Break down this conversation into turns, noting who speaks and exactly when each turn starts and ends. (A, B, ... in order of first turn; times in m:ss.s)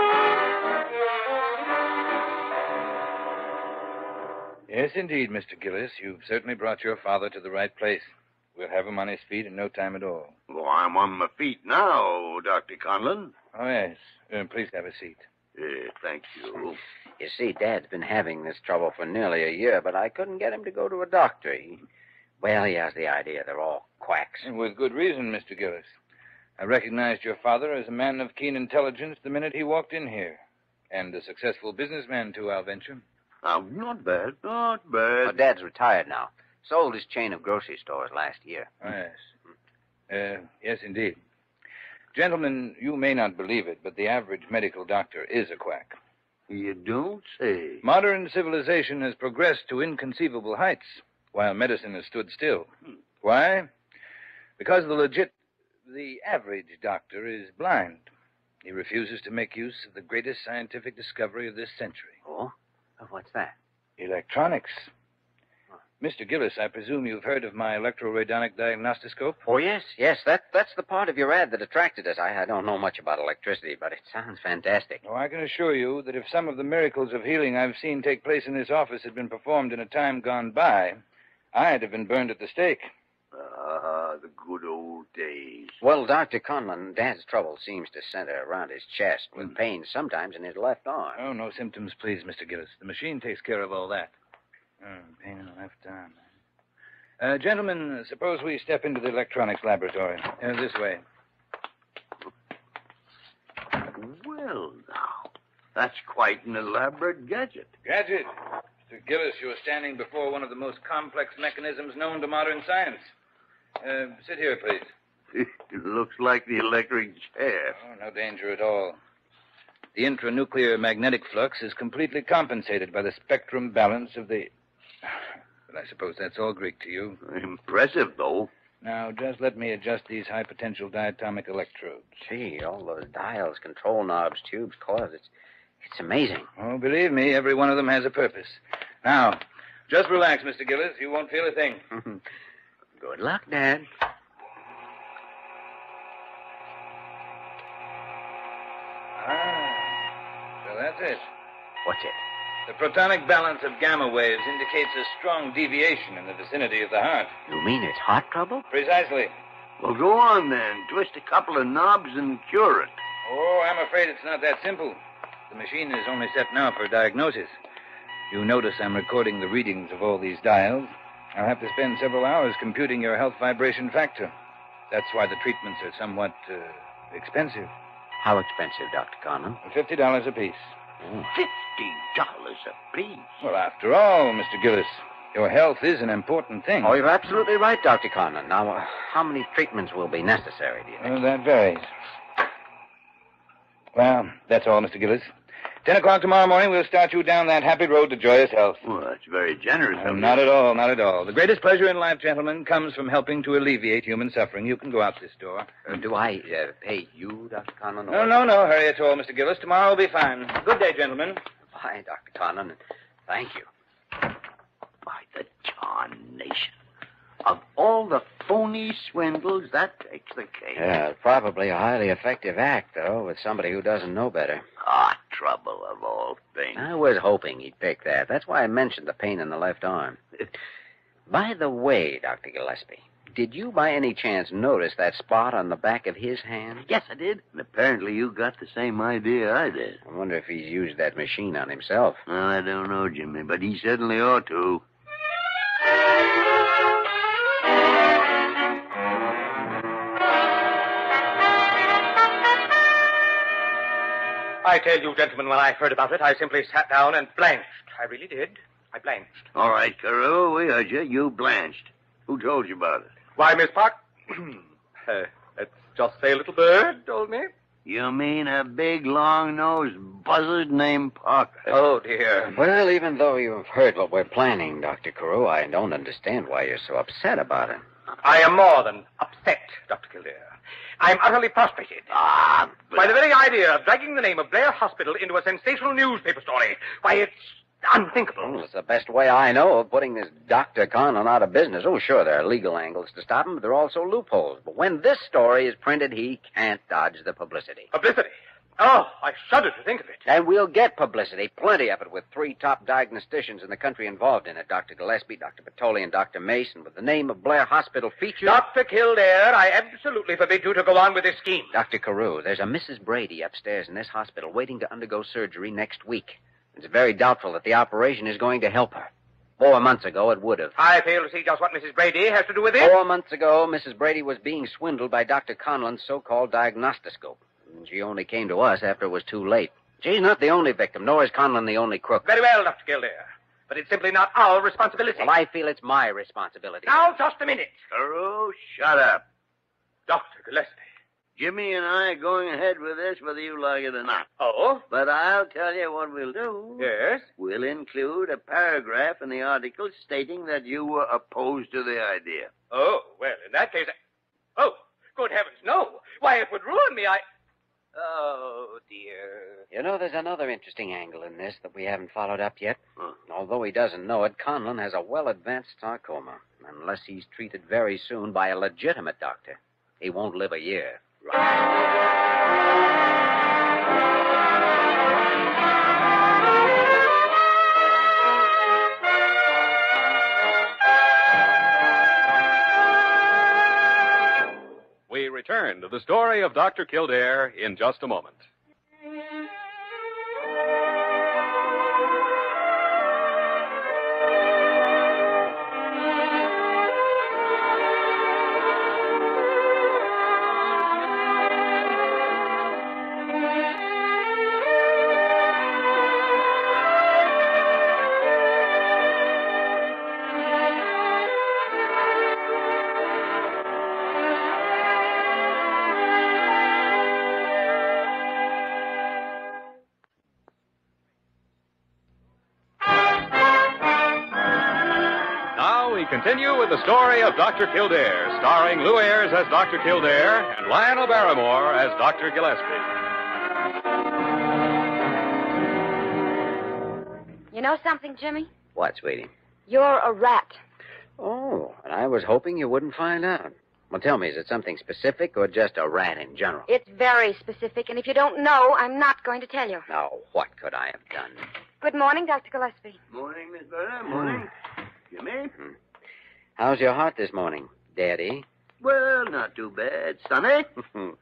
0:04.7-0:10.3 A
0:10.5-0:13.3 B
0:13.5-0:15.2 A
0:15.5-0:16.8 B
0:17.2-0:21.8 C
0:22.4-0:24.5 C
0:24.4-0:25.9 A
0:26.6-0:33.0 A
0:33.4-0:35.3 B
0:35.2-0:38.7 C
0:38.8-0:39.2 A
0:40.1-0:41.2 A
0:42.1-0:46.0 A
0:46.5-0:47.8 B
0:47.8-0:52.7 A
0:53.2-0:53.7 A
0:54.6-0:55.3 A
0:55.8-0:58.1 A
0:58.6-1:02.2 A
1:02.2-1:03.5 C
1:04.0-1:04.9 A
1:06.0-1:09.4 A
1:09.4-1:15.0 C
1:15.0-1:21.0 A
1:21.5-1:22.9 A
1:23.3-1:25.8 B
1:25.8-1:31.2 C
1:31.2-1:34.1 A
1:34.8-1:36.2 A
1:37.2-1:41.0 A
1:43.8-1:47.7 B
1:47.8-1:48.3 A
1:48.9-1:53.1 A
1:53.8-1:54.9 A
1:55.3-1:57.8 B
1:57.8-1:59.0 A
1:59.9-2:04.5 A
2:05.0-2:07.2 A
2:07.2-2:08.5 B
2:08.8-2:12.1 A
2:12.2-2:16.5 C
2:16.6-2:21.8 A
2:23.0-2:23.9 C
2:29.2-2:30.0 A
2:30.6-2:31.2 A
2:31.8-2:32.2 C
2:32.7-2:37.3 A
2:37.5-2:38.6 C
2:38.7-2:39.3 A
2:39.8-2:43.0 B
2:43.2-2:45.0 A
2:45.5-2:47.5 A
2:48.3-2:54.3 A
2:54.9-2:57.7 A
2:58.2-2:59.6 C
2:59.6-3:00.7 A
3:01.3-3:03.4 B
3:03.4-3:07.0 A
3:06.8-3:11.1 C
3:11.0-3:11.9 A
3:13.9-3:15.3 A
3:15.8-3:18.8 A
3:18.8-3:20.4 B
3:20.0-3:25.8 A
3:25.8-3:28.4 C
3:28.1-3:31.4 A
3:31.7-3:33.7 C
3:35.0-3:36.7 B
3:37.4-3:40.8 B
3:40.8-3:44.6 C
3:44.8-3:46.9 B
3:46.7-3:50.5 C
3:51.3-3:56.9 C
3:56.9-4:00.0 B
4:00.0-4:02.2 C
4:02.3-4:04.8 B
4:14.6-4:19.3 D
4:19.5-4:23.1 B
4:23.4-4:27.5 D
4:27.8-4:31.7 B
4:31.7-4:32.5 D
4:32.5-4:37.8 C
4:38.2-4:42.1 D
4:42.1-4:43.1 B
4:42.9-4:48.6 D
4:48.4-4:57.9 C
4:57.9-5:00.2 D
5:00.2-5:08.6 C
5:08.4-5:11.7 D
5:11.7-5:20.7 C
5:20.8-5:22.9 D
5:22.8-5:32.2 C
5:32.2-5:35.3 D
5:35.2-5:37.1 C
5:36.9-5:37.7 D
5:37.9-5:39.2 B
5:40.1-5:40.8 D
5:41.4-5:44.3 B
5:44.4-5:44.8 D
5:44.9-5:52.5 B
5:46.8-5:47.3 D
5:52.7-5:53.9 D
5:54.6-5:57.2 D
5:57.9-5:59.6 D
5:59.7-6:11.6 C
6:25.1-6:28.4 E
7:05.5-7:12.9 E
7:17.5-7:18.5 F
7:18.7-7:19.3 C
7:19.7-7:20.6 F
7:21.2-7:26.7 C
7:26.7-7:29.8 F
7:29.9-7:31.5 C
7:31.8-7:33.0 F
7:33.1-7:34.5 B
7:35.1-7:35.5 B
7:36.6-7:38.4 C
7:38.8-7:40.8 B